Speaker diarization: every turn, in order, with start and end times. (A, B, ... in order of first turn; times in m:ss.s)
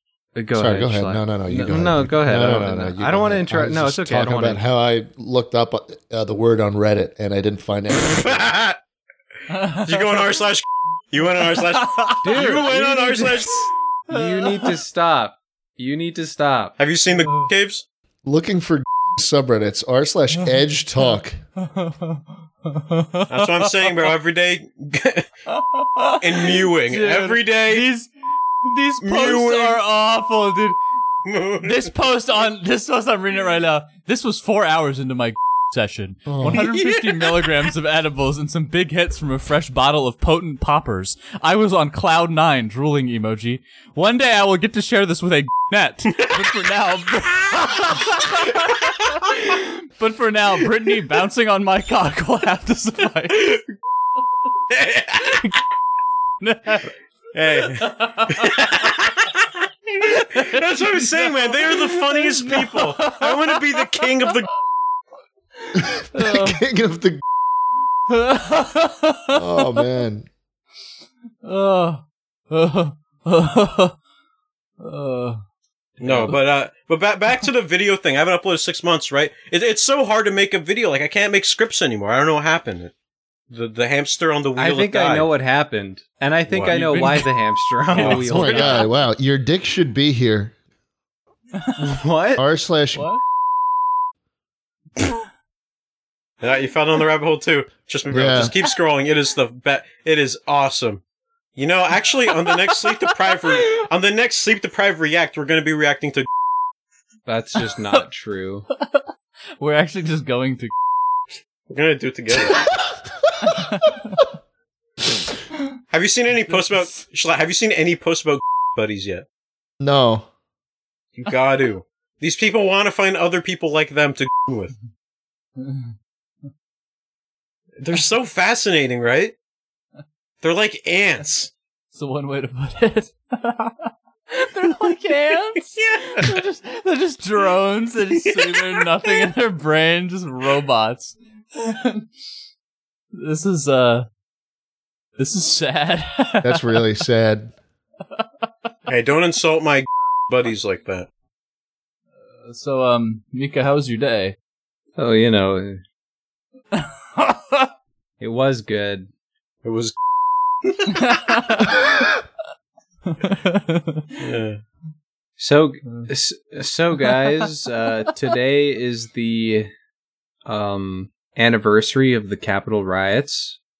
0:00.4-0:04.6 A
0:00.6-0:08.5 B
0:08.0-0:08.8 C
0:09.5-0:10.3 D
0:09.7-0:13.7 C
0:11.5-0:12.7 D
0:12.2-0:13.5 A
0:14.1-0:16.8 A
0:14.1-0:14.8 D
0:16.8-0:17.8 C
0:17.1-0:17.5 D
0:18.2-0:21.4 B
0:21.6-0:24.1 D
0:23.3-0:25.3 C
0:25.5-0:28.1 D
0:26.2-0:27.9 C
0:28.6-0:30.8 D
0:29.0-0:29.8 C
0:31.2-0:31.9 C
0:31.6-0:53.6 D
0:36.3-0:36.6 B
0:36.4-0:37.5 C
0:54.7-0:55.5 C
0:55.3-0:55.6 D
0:56.4-0:56.9 D
0:57.3-1:04.5 C
0:57.8-0:58.5 D
1:00.0-1:04.1 D
1:05.6-1:06.6 D
1:05.8-1:07.2 B
1:08.1-1:09.9 D
1:09.3-1:10.3 B
1:11.4-1:13.9 D
1:14.8-1:15.4 D
1:16.0-1:22.9 C
1:16.0-1:16.3 A
1:23.5-1:25.3 C
1:24.6-1:28.9 A
1:26.5-1:26.8 C
1:26.7-1:27.3 D
1:27.9-1:28.9 D
1:28.0-1:28.2 C
1:28.0-1:30.5 B
1:31.8-1:32.4 A
1:32.4-1:33.1 B
1:33.0-1:33.2 D
1:36.4-1:41.0 C
1:38.1-1:38.5 B
1:41.6-1:46.3 C
1:47.3-1:48.7 A
1:48.7-1:49.0 D
1:49.6-1:50.7 D
1:51.7-1:52.7 C
1:53.4-1:54.2 D
1:55.9-1:59.2 C
1:59.8-2:00.3 B
2:01.2-2:04.7 C
2:05.6-2:05.9 D
2:07.8-2:09.4 C
2:10.4-2:11.5 C
2:11.9-2:22.1 D
2:15.6-2:16.4 C
2:18.1-2:19.3 C
2:23.1-2:24.1 D
2:25.2-2:26.8 D
2:26.4-2:27.5 B
2:28.9-2:31.1 C
2:32.4-2:34.4 D
2:35.0-2:35.8 A
2:36.7-2:37.7 D
2:38.2-2:39.1 A
2:39.6-2:40.0 C
2:40.6-2:41.2 C
2:40.9-2:42.0 D
2:43.1-2:44.2 D
2:44.2-2:44.6 C
2:45.4-2:49.7 A
2:47.1-2:47.5 D
2:50.5-2:53.6 A